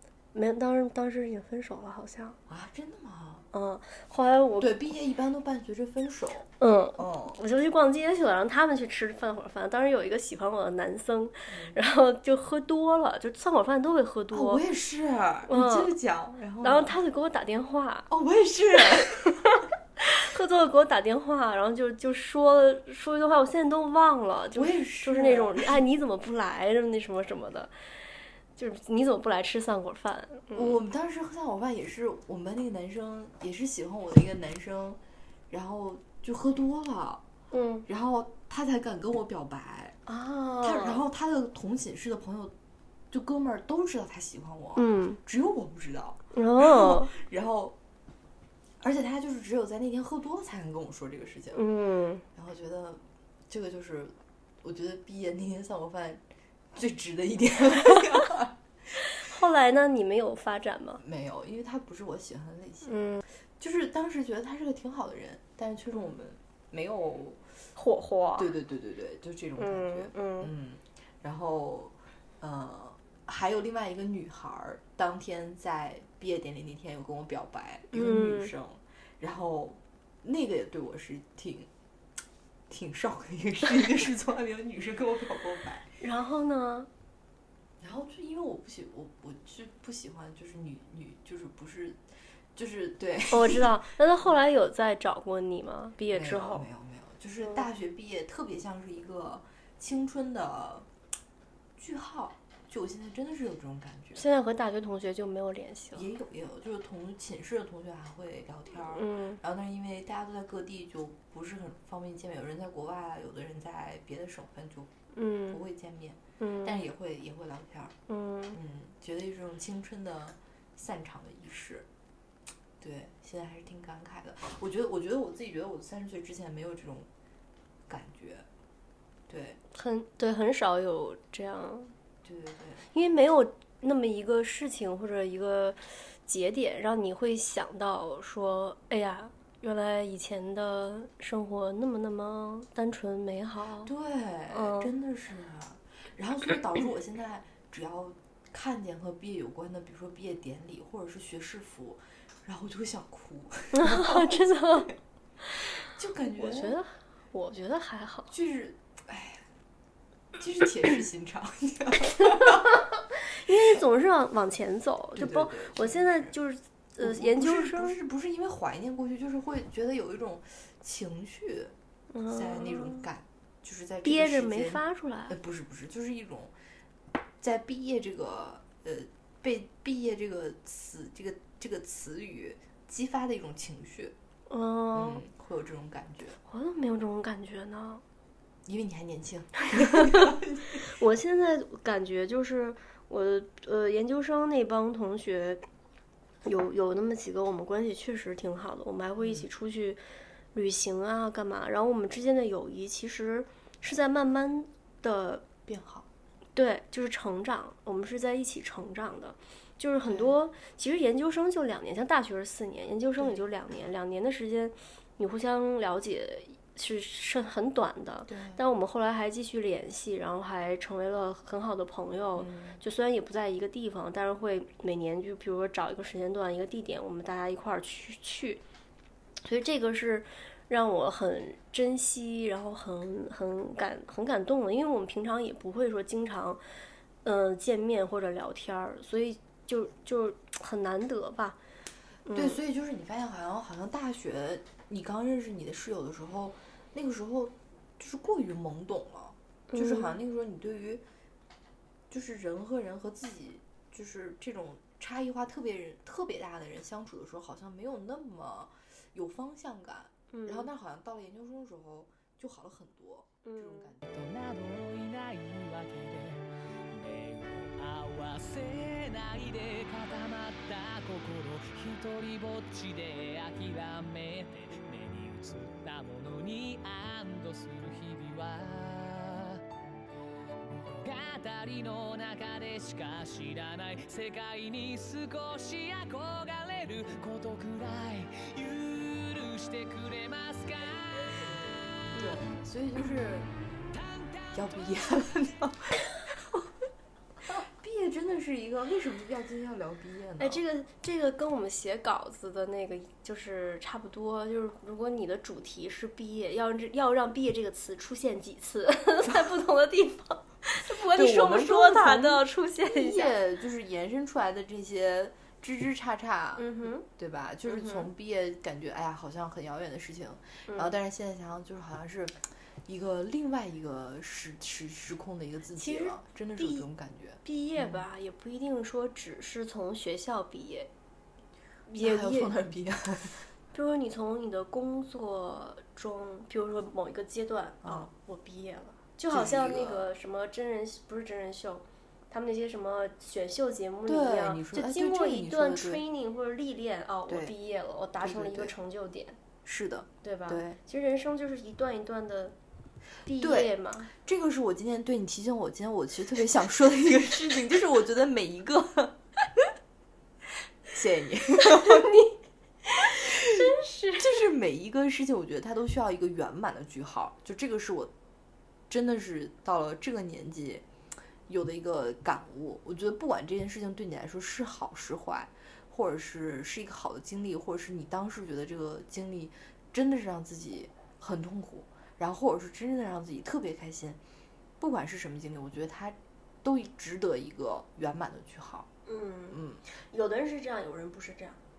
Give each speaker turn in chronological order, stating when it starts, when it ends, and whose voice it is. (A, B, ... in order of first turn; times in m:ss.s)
0:00.3-0:02.4 A
0:02.5-0:03.5 B
0:03.5-0:04.7 A
0:04.6-0:07.4 B
0:06.6-0:14.6 A
0:11.5-0:11.8 B
0:14.3-0:17.0 B
0:15.5-0:15.9 A
0:16.6-0:18.1 A
0:18.1-0:19.4 B
0:19.2-0:27.9 A
0:24.5-0:25.8 B
0:28.5-0:30.8 A
0:30.5-0:35.0 B
0:35.5-0:37.2 B
0:37.5-0:37.8 A
0:37.8-0:40.0 B
0:40.0-0:41.0 A
0:40.6-0:42.5 B
0:43.1-0:47.8 B
0:44.8-0:45.2 A
0:46.3-0:47.1 A
0:48.8-0:51.6 B
0:51.5-0:52.2 A
0:52.3-0:56.2 B
0:56.7-0:58.5 B
0:59.2-1:01.0 A
1:01.0-1:07.4 B
1:02.8-1:03.2 A
1:07.8-1:08.5 A
1:08.4-1:21.7 B
1:09.6-1:10.5 A
1:17.9-1:18.5 A
1:22.7-1:25.9 B
1:26.0-1:26.9 A
1:27.8-1:32.0 B
1:32.5-1:33.8 B
1:33.3-1:36.6 A
1:36.1-1:40.9 B
1:41.8-1:44.2 B
1:44.1-1:46.1 A
1:45.9-1:54.9 B
1:48.9-1:49.4 A
1:55.1-1:55.6 A
1:55.5-1:57.9 B
1:56.4-1:56.8 A
1:58.1-1:58.6 A
1:58.5-2:01.9 B
2:02.8-2:07.1 B
2:07.9-2:08.5 B
2:09.3-2:09.6 B
2:09.7-2:11.9 A
2:12.2-2:12.9 B
2:12.9-2:23.9 A
2:23.8-2:34.8 B
2:24.5-2:24.9 A
2:33.7-2:34.9 A
2:35.4-2:38.3 A
2:35.8-2:36.8 B
2:38.3-2:39.4 B
2:40.3-2:42.8 B
2:42.2-2:48.0 A
2:45.2-2:46.3 B
2:47.0-2:56.5 B
2:52.1-2:53.1 A
2:54.0-2:55.4 A
2:57.4-3:04.1 B
3:04.5-3:05.2 A
3:04.9-3:06.4 B
3:06.4-3:08.0 A
3:08.6-3:10.8 B
3:09.9-3:15.6 A
3:16.4-3:20.0 A
3:19.2-3:19.4 B
3:20.5-3:25.5 A
3:25.6-3:26.1 B
3:26.5-3:48.6 A
3:30.0-3:30.4 B
3:38.3-3:38.6 B
3:42.4-3:42.8 B
3:49.4-3:56.6 A
3:57.2-4:01.6 A
4:02.2-4:02.6 A
4:02.3-4:11.0 B
4:09.7-4:10.2 A
4:12.1-4:24.2 B
4:20.3-4:20.7 A
4:23.4-4:24.0 A
4:24.1-4:39.6 C
4:41.0-4:51.4 C
4:52.1-4:52.4 A
4:52.1-4:53.5 B
4:54.0-4:54.5 C
4:54.5-4:56.4 B
4:57.6-5:00.6 B
5:00.4-5:13.4 A
5:11.0-5:28.0 B
5:16.6-5:17.0 A
5:17.6-5:18.1 A
5:20.7-5:20.9 A
5:25.8-5:26.9 A
5:27.4-5:30.9 A
5:31.9-5:32.5 A
5:32.0-5:33.5 B
5:33.7-5:49.4 A
5:37.8-5:38.1 B
5:39.3-5:40.0 B
5:44.1-5:46.0 B
5:47.3-5:47.5 B
5:48.2-5:48.7 B
5:49.6-5:50.8 B
5:50.2-5:52.6 A
5:53.2-5:54.1 A
5:53.4-5:59.2 B
6:00.9-6:02.3 B
6:01.6-6:02.2 A
6:03.0-6:08.1 B
6:03.0-6:04.3 A
6:08.9-6:10.8 B
6:11.5-6:24.2 B
6:24.8-6:28.9 B
6:29.0-6:31.6 A
6:29.5-6:29.8 B